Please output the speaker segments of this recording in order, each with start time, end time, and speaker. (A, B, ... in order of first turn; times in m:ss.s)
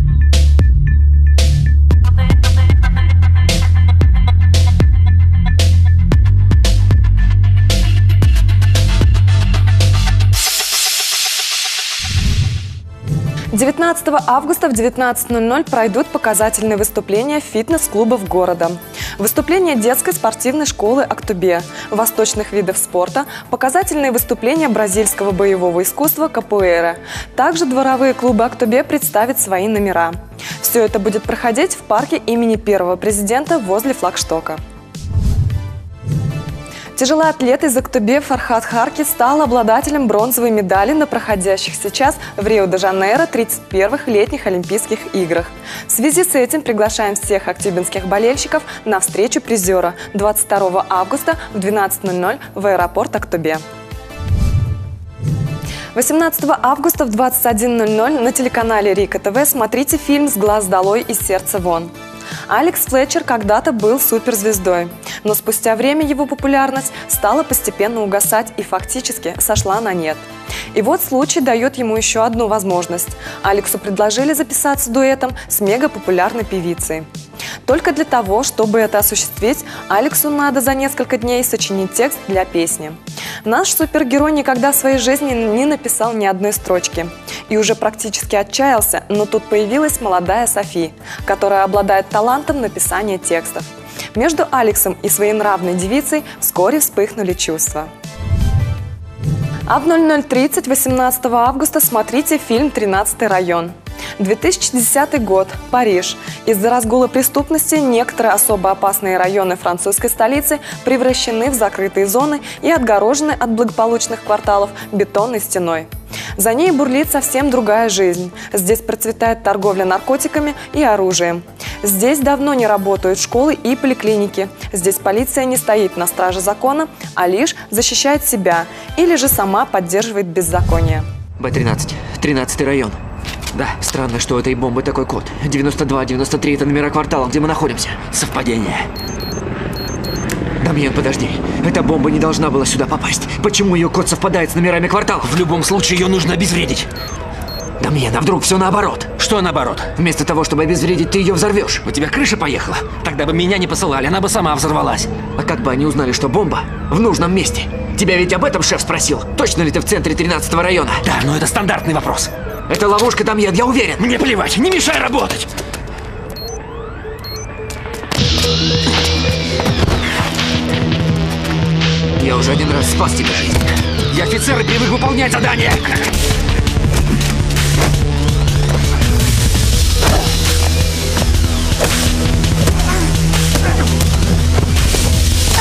0:13.5-0:34.6 A
0:37.0-0:53.6 A
0:55.9-1:01.9 A
1:02.5-1:17.1 A
1:17.6-1:37.9 A
1:39.7-2:11.1 A
2:11.4-2:13.0 B
2:13.5-2:18.2 B
2:18.2-2:18.9 C
2:20.6-2:25.4 B
2:25.3-2:26.9 C
2:27.8-2:29.2 B
2:29.2-2:29.9 C
2:29.9-2:33.0 B
2:32.2-2:35.1 C
2:35.2-2:41.1 B
2:41.0-2:42.3 C
2:42.7-2:44.1 B
2:44.0-2:45.5 C
2:52.2-2:53.7 B
2:54.1-2:56.0 C